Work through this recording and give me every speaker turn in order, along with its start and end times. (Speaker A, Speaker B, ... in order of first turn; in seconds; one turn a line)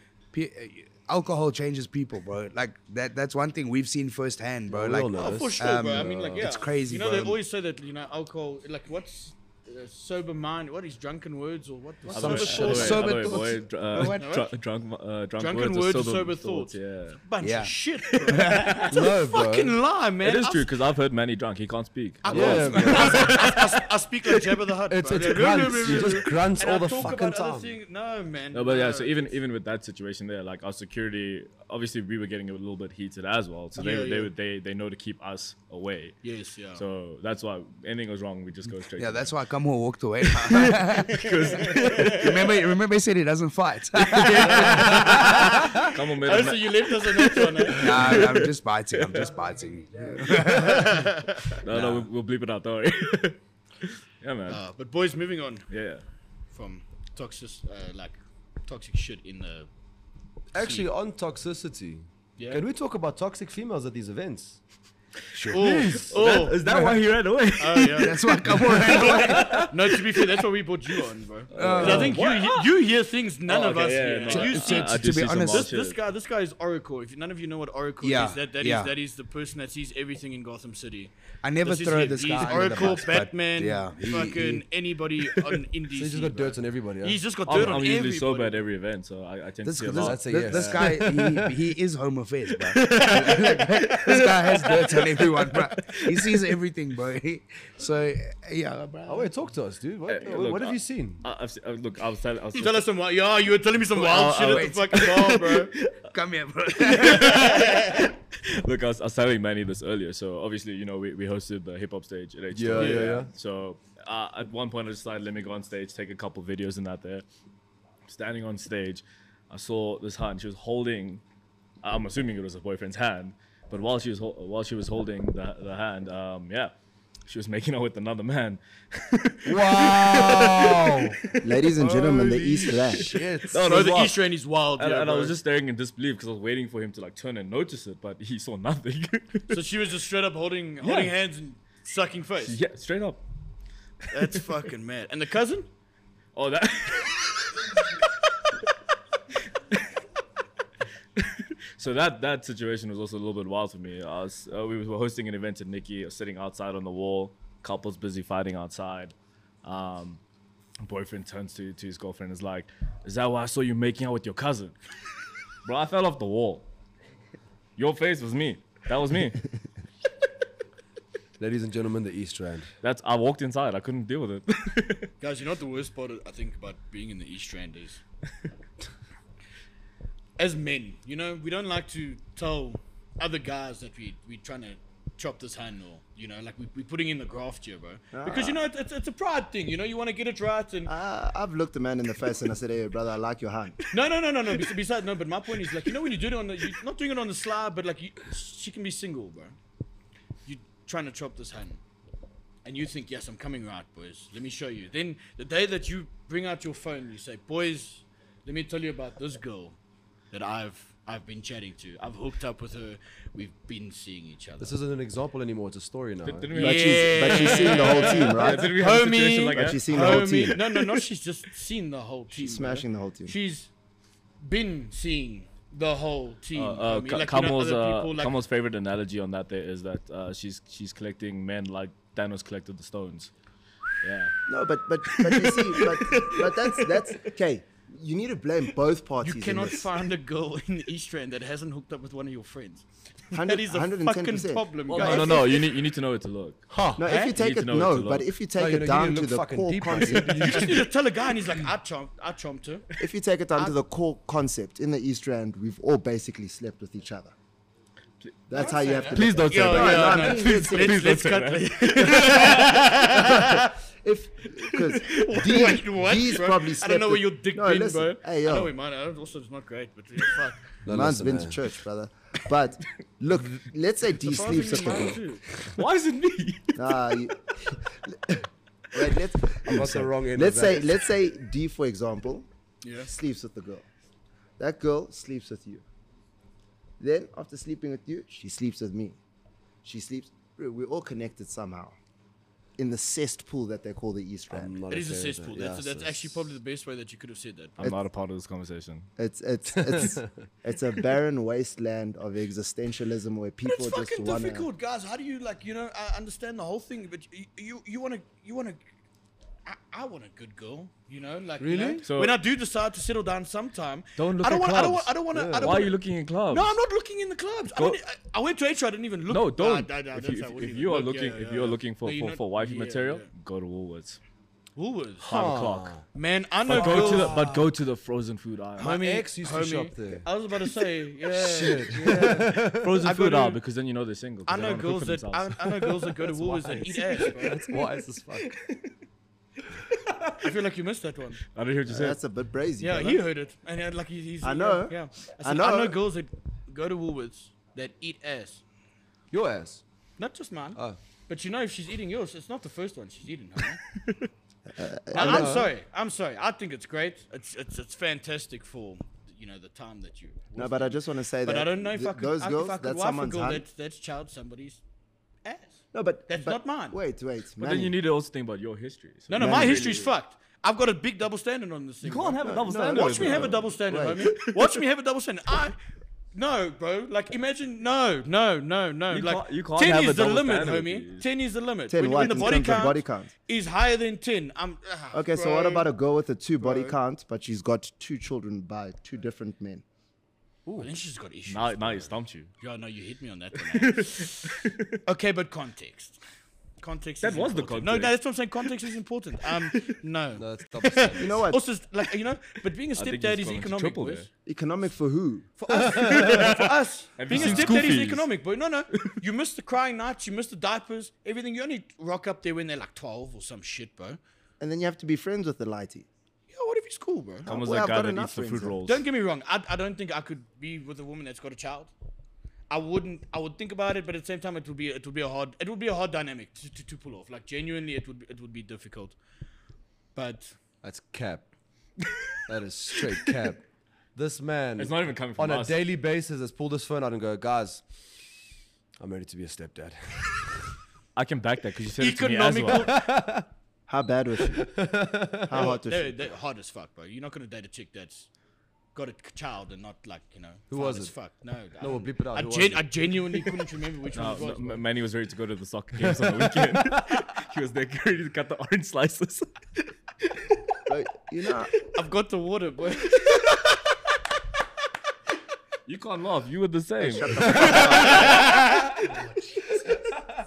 Speaker A: 0.3-7.4
Speaker B: 4.7-6.5
Speaker C: 5.2-13.1
Speaker B: 12.1-13.2
Speaker D: 12.1-17.2
Speaker A: 12.5-14.2
Speaker C: 14.0-14.5
Speaker C: 15.4-20.7
Speaker A: 17.4-17.7
Speaker D: 18.1-19.1
Speaker A: 18.3-18.8
Speaker B: 18.9-19.8
Speaker D: 20.2-23.8
Speaker C: 22.2-29.4
Speaker B: 22.3-23.3
Speaker B: 24.9-27.8
Speaker D: 28.5-36.2
Speaker C: 33.8-34.3
Speaker C: 36.2-36.8
Speaker D: 36.7-39.4
Speaker A: 39.0-45.3
Speaker D: 40.3-42.4
Speaker C: 41.1-42.3
Speaker C: 44.0-48.2
Speaker D: 44.2-49.3
Speaker A: 47.7-51.0
Speaker C: 50.3-52.0
Speaker D: 51.6-54.6
Speaker C: 54.5-55.7
Speaker D: 55.7-56.0
Speaker C: 56.5-59.7
Speaker B: 60.5-64.6
Speaker C: 60.6-60.9
Speaker C: 62.4-62.6
Speaker A: 65.3-65.9
Speaker B: 65.5-66.2
Speaker C: 65.5-66.6
Speaker D: 66.0-70.4
Speaker A: 66.7-67.0
Speaker C: 67.6-88.6
Speaker A: 68.0-69.7
Speaker D: 71.5-72.7
Speaker A: 71.5-72.2
Speaker B: 71.6-72.1
Speaker D: 73.5-76.0
Speaker A: 74.3-75.7
Speaker A: 78.0-78.9
Speaker A: 81.4-84.6
Speaker B: 82.2-83.2
Speaker B: 84.1-84.6
Speaker B: 85.9-87.2
Speaker D: 87.4-91.0
Speaker A: 89.6-99.3
Speaker B: 90.0-91.4
Speaker C: 90.5-90.8
Speaker C: 92.8-93.9
Speaker D: 94.1-96.2
Speaker B: 99.1-101.2
Speaker D: 100.1-102.9
Speaker C: 102.5-105.7
Speaker D: 104.0-106.1
Speaker A: 104.2-105.4
Speaker A: 105.9-107.7
Speaker D: 106.8-117.2
Speaker C: 106.9-108.1
Speaker B: 112.5-113.3
Speaker C: 112.8-113.2
Speaker D: 118.1-121.2
Speaker D: 121.8-126.7
Speaker D: 127.3-131.4
Speaker B: 129.5-133.6
Speaker E: 131.4-133.2
Speaker D: 132.9-134.2
Speaker C: 133.5-135.4
Speaker D: 134.8-139.6
Speaker C: 139.5-142.6
Speaker D: 140.8-141.1
Speaker D: 142.4-143.2
Speaker C: 144.1-145.7
Speaker D: 144.1-144.4
Speaker D: 146.3-147.8
Speaker D: 151.2-160.2
Speaker D: 160.8-164.8
Speaker D: 165.6-166.7
Speaker D: 167.8-169.5
Speaker B: 171.4-172.8
Speaker D: 172.8-175.1
Speaker C: 175.2-178.0
Speaker C: 180.4-190.9
Speaker E: 188.1-188.7
Speaker E: 190.9-193.8
Speaker C: 193.9-199.6
Speaker C: 200.5-201.8
Speaker C: 202.7-209.8
Speaker C: 210.3-214.8
Speaker B: 214.6-216.5
Speaker D: 216.2-220.6
Speaker E: 216.5-218.8
Speaker C: 216.5-223.7
Speaker E: 219.5-220.6
Speaker E: 222.3-223.3
Speaker C: 224.4-228.3
Speaker D: 226.5-233.3
Speaker D: 234.0-234.3
Speaker E: 234.5-239.9
Speaker D: 235.1-237.3
Speaker C: 239.2-245.7
Speaker E: 243.3-245.3
Speaker D: 244.9-248.3
Speaker B: 246.7-247.0
Speaker E: 247.0-250.7
Speaker C: 247.1-247.4
Speaker B: 248.6-250.9
Speaker C: 250.4-252.8
Speaker E: 253.0-257.3
Speaker E: 258.5-261.1
Speaker C: 258.6-263.7
Speaker D: 259.1-262.8
Speaker E: 263.1-268.7
Speaker C: 264.8-270.7
Speaker B: 270.8-271.6
Speaker E: 270.9-275.6
Speaker C: 274.2-275.4
Speaker D: 275.7-277.2
Speaker E: 276.8-282.5
Speaker B: 279.6-280.9
Speaker C: 282.8-283.1
Speaker E: 283.0-283.9
Speaker E: 284.6-285.9
Speaker E: 287.0-289.2
Speaker E: 289.8-292.0
Speaker E: 292.8-294.8
Speaker B: 294.5-296.4
Speaker C: 294.9-297.8
Speaker D: 297.8-299.1
Speaker E: 299.2-304.7
Speaker B: 299.7-300.4
Speaker C: 303.7-308.8
Speaker C: 309.7-323.3
Speaker B: 311.6-312.1
Speaker D: 312.0-312.4
Speaker D: 314.2-316.8
Speaker B: 315.3-315.9
Speaker D: 317.7-318.0
Speaker D: 319.3-324.2
Speaker C: 324.8-325.3
Speaker D: 325.2-326.0
Speaker B: 325.3-326.0
Speaker C: 326.1-327.4
Speaker D: 326.6-329.0
Speaker B: 326.7-327.7
Speaker C: 328.8-333.6
Speaker B: 328.8-330.3
Speaker B: 331.3-332.9
Speaker D: 332.8-337.9
Speaker C: 334.5-337.8
Speaker B: 337.2-338.6
Speaker D: 338.4-339.0
Speaker D: 339.7-340.5
Speaker C: 340.4-341.4
Speaker D: 341.5-342.2
Speaker E: 341.9-343.2
Speaker C: 342.8-348.6
Speaker E: 344.4-346.0
Speaker B: 349.3-349.8
Speaker C: 350.2-353.8
Speaker E: 354.7-355.7
Speaker C: 355.1-364.8
Speaker B: 355.2-355.7
Speaker E: 360.6-363.6
Speaker C: 365.4-367.0
Speaker E: 365.9-368.0
Speaker D: 367.6-370.1
Speaker C: 369.3-375.8
Speaker E: 369.3-370.0
Speaker D: 372.0-373.7
Speaker E: 372.4-374.4
Speaker D: 374.3-374.8
Speaker C: 376.3-385.9
Speaker D: 379.1-381.3
Speaker E: 381.9-383.3
Speaker E: 385.1-389.8
Speaker C: 386.6-386.9
Speaker B: 390.7-390.9
Speaker C: 390.8-396.2
Speaker D: 391.5-392.5
Speaker D: 393.7-395.0
Speaker C: 396.8-404.3
Speaker D: 397.2-398.2
Speaker B: 400.4-401.5
Speaker E: 401.2-401.6
Speaker D: 402.9-404.3
Speaker E: 404.4-405.5
Speaker C: 405.6-414.2
Speaker D: 406.0-408.3
Speaker B: 407.4-407.6
Speaker E: 414.6-416.1
Speaker C: 416.5-417.5
Speaker E: 417.5-418.8
Speaker D: 417.5-419.0
Speaker C: 418.9-421.9
Speaker C: 422.7-429.2
Speaker C: 430.1-430.6
Speaker B: 430.8-431.6
Speaker B: 432.5-438.1
Speaker D: 434.8-435.8
Speaker B: 439.0-440.7
Speaker D: 441.1-443.0
Speaker C: 442.0-443.0
Speaker B: 442.9-443.5
Speaker E: 443.9-444.8
Speaker B: 444.5-445.6
Speaker E: 445.4-446.1
Speaker C: 445.5-448.3
Speaker C: 448.9-454.9
Speaker B: 450.7-451.1
Speaker B: 451.8-453.1
Speaker D: 454.1-459.9
Speaker B: 456.0-457.0
Speaker E: 460.9-461.7
Speaker C: 461.9-463.4
Speaker D: 465.9-468.6
Speaker E: 467.0-468.5
Speaker C: 467.6-469.0